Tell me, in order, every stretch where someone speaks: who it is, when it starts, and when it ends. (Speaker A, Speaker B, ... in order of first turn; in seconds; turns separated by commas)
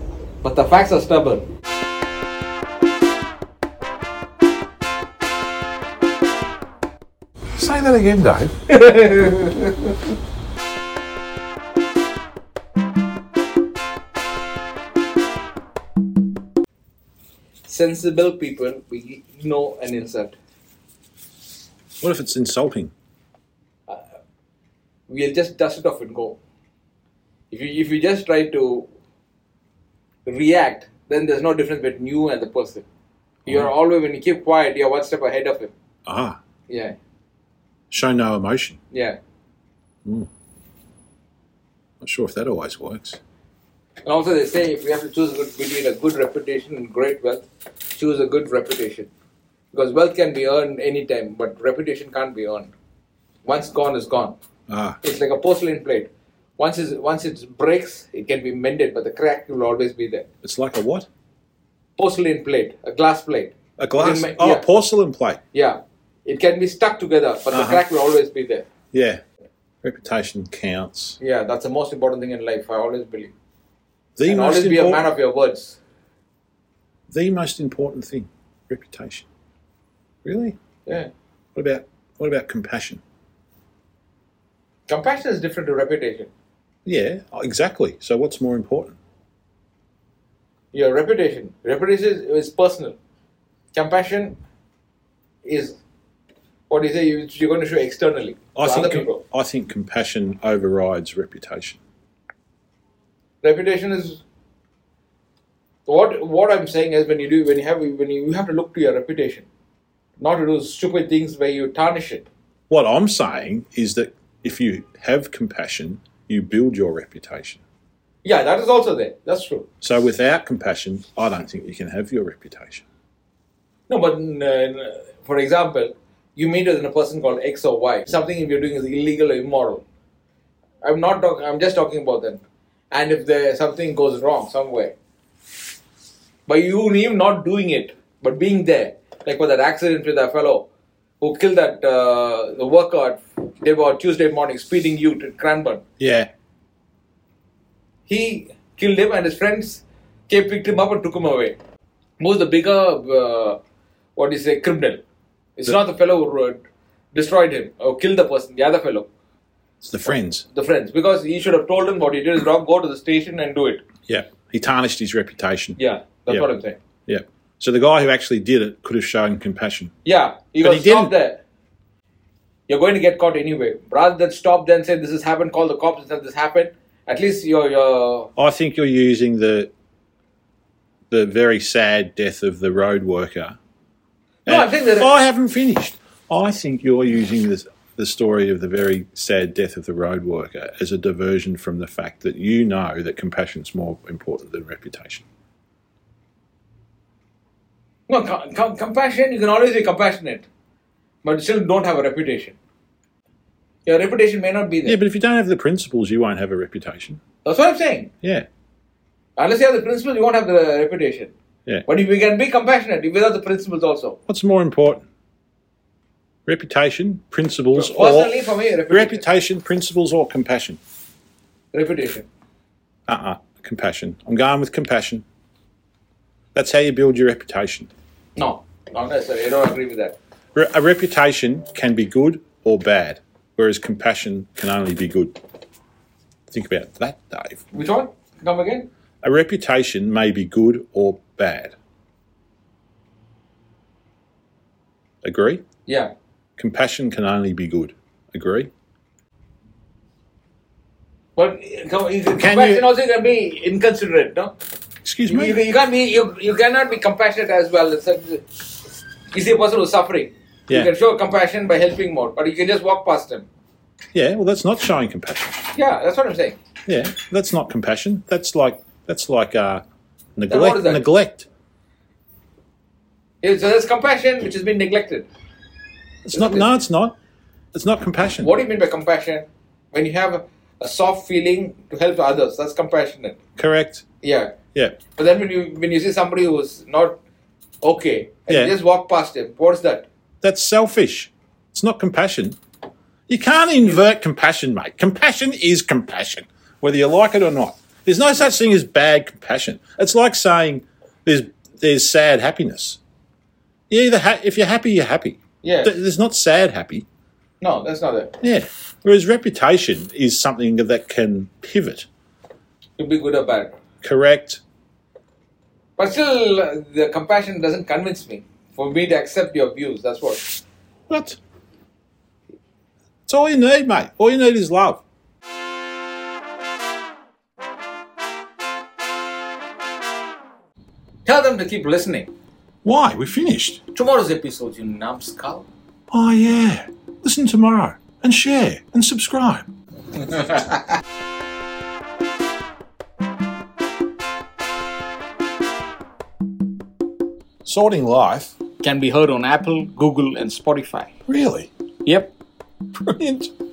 Speaker A: 0.4-1.4, Speaker B: 7.5-9.7, Speaker A: 17.6-20.4, Speaker B: 22.0-22.9, Speaker A: 25.1-26.4, Speaker A: 27.5-28.9, Speaker A: 30.2-32.8, Speaker B: 33.4-33.7, Speaker A: 33.5-35.7, Speaker B: 36.0-36.4, Speaker A: 36.7-37.0, Speaker B: 37.9-38.8, Speaker A: 38.9-39.2, Speaker B: 42.0-43.2, Speaker A: 44.0-49.1, Speaker A: 49.7-52.7, Speaker A: 53.4-54.4, Speaker B: 54.7-55.0, Speaker A: 55.0-60.3, Speaker B: 60.4-61.1, Speaker A: 62.0-64.6, Speaker B: 63.8-65.4, Speaker A: 65.5-68.7, Speaker B: 67.5-67.8, Speaker B: 68.9-69.2, Speaker B: 69.8-71.2, Speaker A: 71.2-73.3, Speaker B: 74.2-75.1, Speaker A: 74.2-75.8, Speaker B: 77.1-79.3, Speaker B: 80.2-80.5, Speaker B: 81.5-83.0, Speaker A: 84.9-86.3, Speaker B: 86.8-89.0, Speaker A: 90.7-93.0, Speaker A: 93.7-94.4, Speaker A: 95.4-95.8, Speaker A: 96.7-99.2, Speaker B: 98.5-101.8, Speaker A: 103.4-104.2, Speaker A: 105.8-109.5, Speaker A: 110.2-112.3, Speaker B: 112.7-117.6, Speaker A: 118.2-119.7, Speaker B: 119.8-122.8, Speaker A: 123.9-129.8, Speaker A: 130.8-132.4, Speaker A: 132.9-134.9, Speaker A: 136.5-140.7, Speaker A: 141.2-145.8, Speaker B: 146.0-146.3, Speaker A: 148.1-151.6, Speaker A: 152.2-153.6, Speaker A: 154.2-155.0, Speaker A: 155.6-156.6, Speaker A: 157.1-159.1, Speaker B: 159.8-160.4, Speaker A: 160.5-163.8, Speaker B: 164.1-165.8, Speaker A: 165.8-166.8, Speaker B: 167.1-169.9, Speaker A: 170.0-171.4, Speaker B: 170.6-171.1, Speaker A: 172.7-178.3, Speaker B: 178.3-179.7, Speaker B: 181.1-183.6, Speaker A: 184.4-185.1, Speaker B: 184.4-195.2, Speaker A: 198.1-200.5, Speaker A: 201.2-202.6, Speaker A: 203.8-205.0, Speaker B: 204.8-207.2, Speaker A: 207.4-208.1, Speaker A: 209.3-211.3, Speaker A: 211.8-214.2, Speaker B: 214.3-215.1, Speaker B: 216.4-218.3, Speaker A: 217.7-219.2, Speaker B: 218.9-220.8, Speaker A: 221.7-222.3, Speaker B: 223.1-225.2, Speaker B: 226.5-227.9, Speaker A: 228.3-230.2, Speaker B: 230.5-235.4, Speaker B: 236.5-237.7, Speaker A: 237.7-238.9, Speaker B: 239.2-241.7, Speaker B: 245.2-245.6, Speaker A: 245.8-246.1, Speaker B: 246.6-248.7, Speaker A: 251.3-254.5, Speaker B: 252.3-252.8, Speaker B: 255.0-255.6, Speaker A: 255.3-258.6, Speaker A: 259.3-263.5, Speaker B: 264.1-265.6, Speaker A: 265.7-266.6, Speaker B: 266.9-269.8, Speaker B: 270.4-271.5, Speaker A: 270.5-271.1, Speaker A: 273.4-275.3, Speaker B: 276.2-277.1, Speaker A: 276.3-276.7, Speaker B: 277.7-278.5, Speaker A: 278.4-283.4, Speaker B: 283.6-284.0, Speaker A: 284.2-284.6, Speaker A: 285.1-287.2, Speaker A: 287.8-290.1, Speaker B: 288.5-288.7, Speaker B: 290.4-292.6, Speaker B: 293.3-303.0, Speaker B: 303.9-307.1, Speaker A: 305.6-305.9, Speaker A: 307.6-308.3, Speaker B: 308.4-312.1, Speaker A: 313.0-313.7, Speaker B: 314.0-314.6, Speaker A: 316.0-320.6, Speaker B: 321.1-321.4, Speaker B: 323.3-325.0, Speaker A: 331.2-332.3, Speaker B: 332.8-333.8, Speaker A: 333.9-335.7, Speaker B: 336.1-339.7, Speaker B: 347.6-348.6, Speaker A: 348.8-351.1, Speaker B: 351.3-351.7, Speaker A: 352.0-352.3, Speaker B: 353.0-353.5